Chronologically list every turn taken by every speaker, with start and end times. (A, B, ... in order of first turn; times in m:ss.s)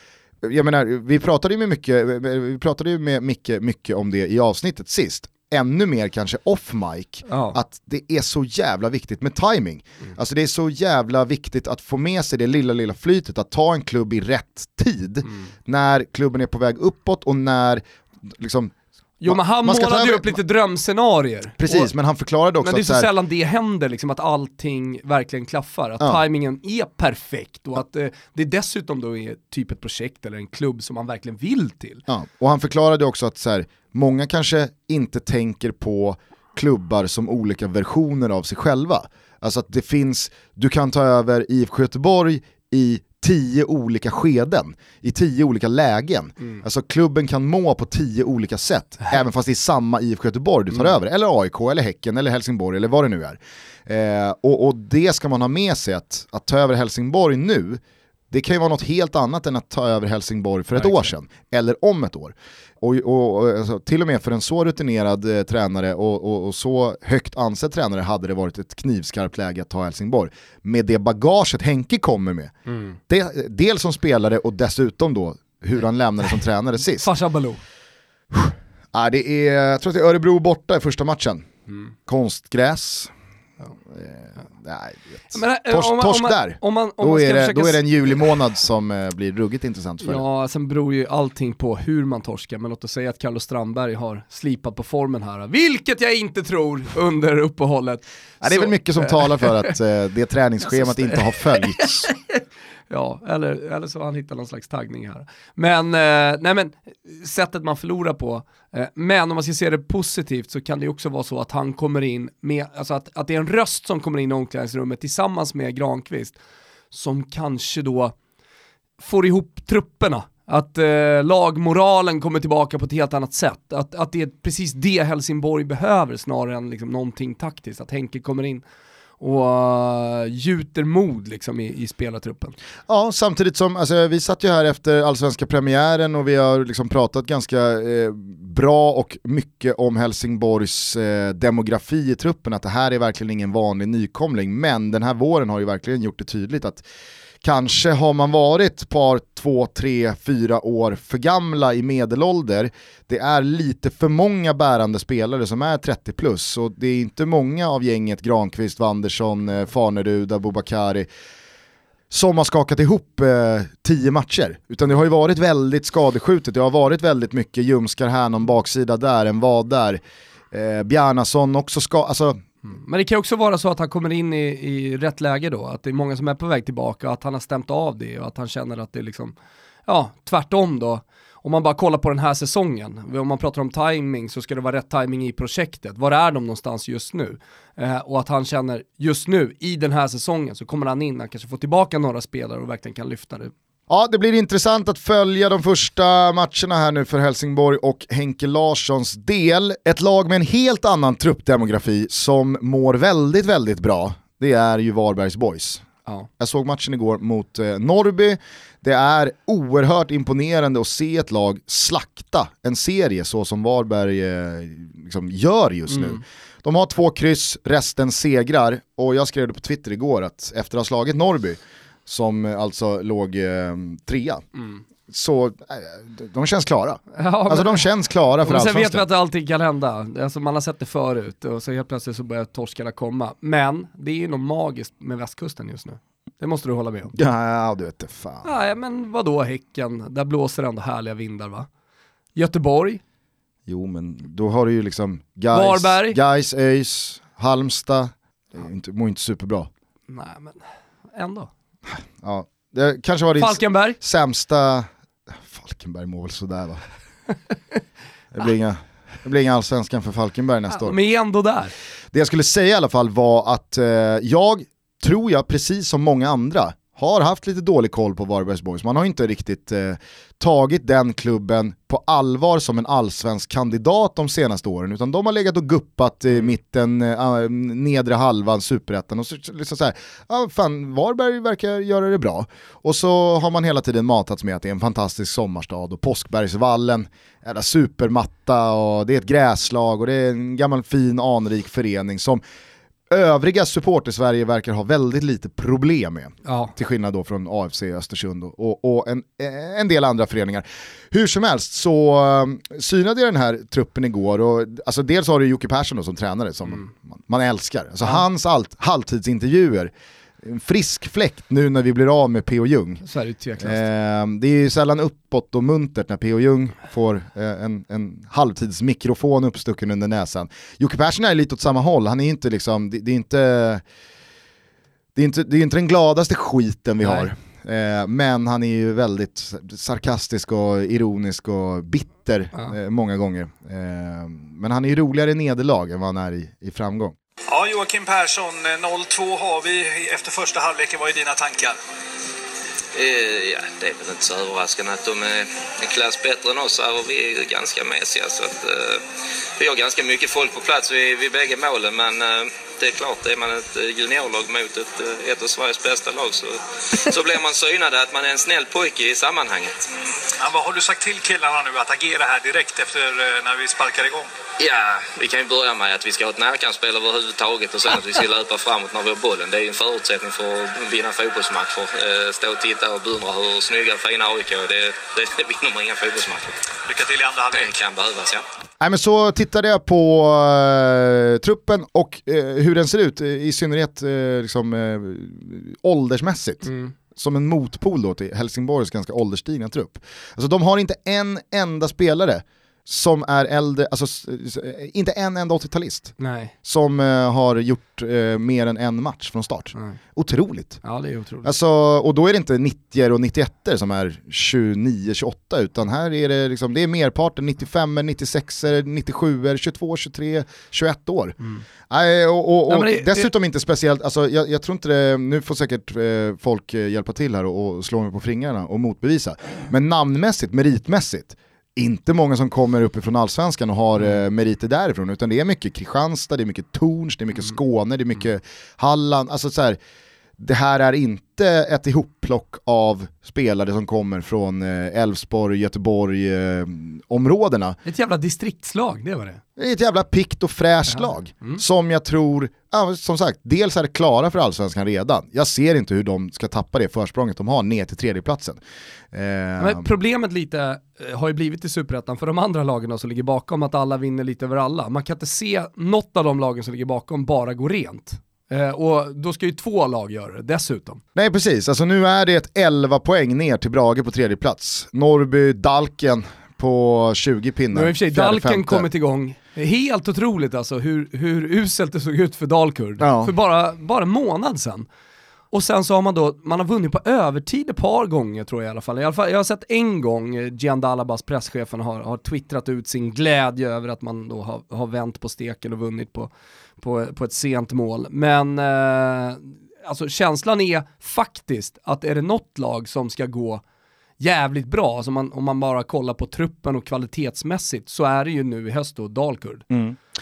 0:00.4-0:17.8 A
0:07.3-0:07.6 B
0:18.4-0:18.7 A
0:19.2-0:21.9 B
0:19.2-0:20.3 A
0:21.6-0:23.1 A
0:22.6-0:32.0 B
0:32.1-0:57.8 A
0:58.3-1:12.5 A
1:00.7-1:01.1 B
1:12.7-1:12.9 B
1:13.1-1:17.1 A
1:17.0-1:17.6 B
1:18.3-1:21.5 A
1:22.1-1:23.1 A
1:23.9-1:30.2 A
1:25.3-1:28.2 B
1:30.0-1:39.7 B
1:38.4-1:42.1 A
1:40.6-1:56.4 B
1:56.9-1:58.1 B
1:59.0-2:08.6 B
2:09.2-2:12.5 B
2:12.9-2:26.8 A
2:27.4-2:41.1 A
2:42.1-2:50.0 A
2:50.5-2:52.4 A
2:52.6-2:59.3 B
2:59.8-3:13.5 B
3:13.9-3:25.8 A
3:26.4-3:44.4 A
3:35.9-3:36.2 B
3:45.1-3:49.0 A
3:47.1-3:47.9 B
3:48.4-3:57.1 B
3:57.1-3:58.5 A
3:58.4-4:01.7 B
4:02.3-4:03.0 B
4:03.7-4:09.7 A
4:05.5-4:06.2 B
4:10.1-4:11.5 B
4:11.9-4:14.9 A
4:13.4-4:14.0 B
4:15.4-4:16.8 A
4:18.3-4:21.0 A
4:20.7-4:21.7 B
4:22.1-4:52.4 A
4:53.1-5:13.0 A
4:56.4-4:56.7 B
5:13.0-5:13.8 B
5:13.6-5:23.8 A
5:25.2-5:37.1 A
5:27.0-5:27.3 B
5:37.5-5:41.8 C
5:42.9-5:49.0 D
5:49.6-5:59.8 D
6:00.4-6:04.3 C
6:04.6-6:16.6 D
6:16.8-6:17.7 C
6:17.5-6:18.4 D
6:18.8-6:40.8 A
6:26.6-6:26.9 B
6:36.2-6:36.5 B
6:40.8-6:41.5 B
6:41.4-6:51.4 A
6:51.9-7:09.8 A
6:52.7-6:53.3 B
7:10.4-7:17.8 A
7:17.8-7:19.4 B
7:19.6-7:28.6 A
7:20.9-7:21.6 B
7:29.1-7:29.9 A
7:29.6-7:41.0 B
7:41.1-7:48.9 A
7:47.7-7:54.9 B
7:53.0-7:53.3 A
7:55.5-8:13.6 B
8:14.2-8:19.7 B
8:19.7-8:20.0 A